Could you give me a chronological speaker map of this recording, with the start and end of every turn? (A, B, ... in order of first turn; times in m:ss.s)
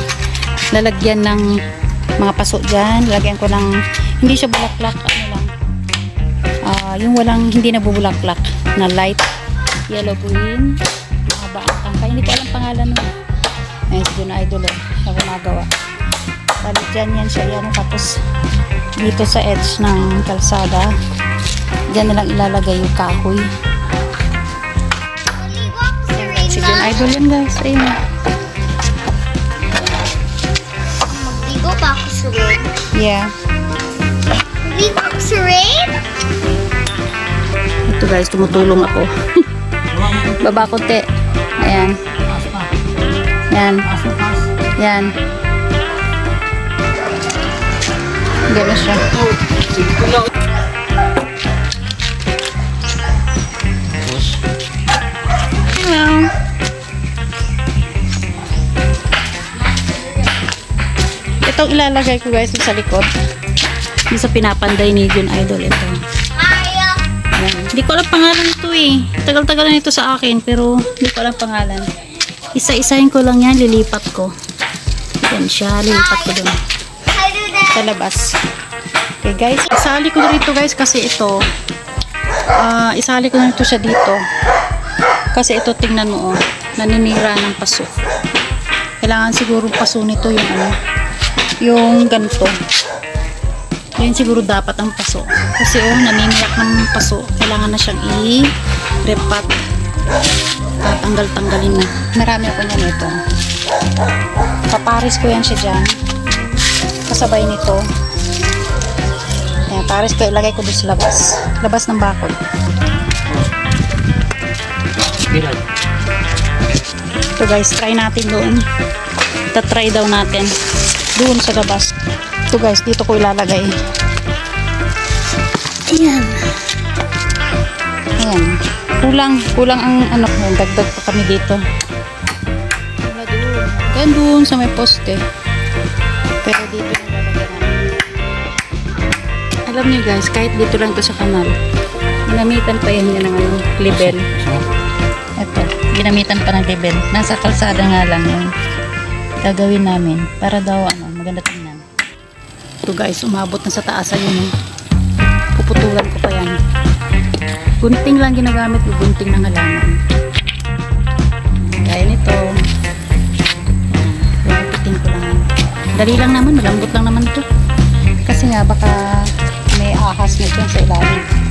0:00.7-0:01.5 A
0:02.2-0:05.5 A
0:06.6-0:09.3 A
0:09.9-0:13.1 A
0:13.9-0:15.7 A
0:16.6-0:18.2 A
0:19.0-0:20.9 A
0:21.9-0:23.5 A
0:25.3-0:26.7 B
0:26.0-0:28.0 A
0:31.0-0:32.7 B
0:32.8-0:33.3 A
0:34.6-0:36.0 B
0:37.9-0:39.2 A
0:39.9-0:42.4 A
0:43.5-0:45.1 A
0:48.5-0:49.2 A
0:55.5-0:56.3 A
1:01.4-1:03.1 A
1:04.1-1:06.0 A
1:06.4-1:07.0 B
1:07.3-1:11.9 A
1:12.5-1:14.3 A
1:15.2-1:16.6 A
1:17.5-1:18.4 A
1:19.2-1:21.4 A
1:22.5-1:24.2 A
1:25.3-1:27.9 A
1:29.0-1:30.8 A
1:31.6-1:32.6 A
1:34.0-1:38.5 A
1:39.0-1:39.5 A
1:40.8-1:43.2 A
1:44.7-1:45.9 A
1:47.0-1:47.8 A
1:49.7-1:52.4 A
1:57.4-1:58.6 A
1:59.5-2:00.5 A
2:01.2-2:01.9 A
2:02.5-2:03.7 A
2:05.8-2:06.6 A
2:08.2-2:11.6 A
2:13.0-2:15.2 A
2:16.4-2:17.8 A
2:19.6-2:21.6 A
2:22.2-2:24.6 A
2:25.4-2:28.5 A
2:29.4-2:31.8 A
2:32.8-2:34.5 A
2:35.5-2:36.6 A
2:37.8-2:40.0 A
2:41.6-2:42.5 A
2:44.2-2:47.4 A
2:48.2-2:51.2 A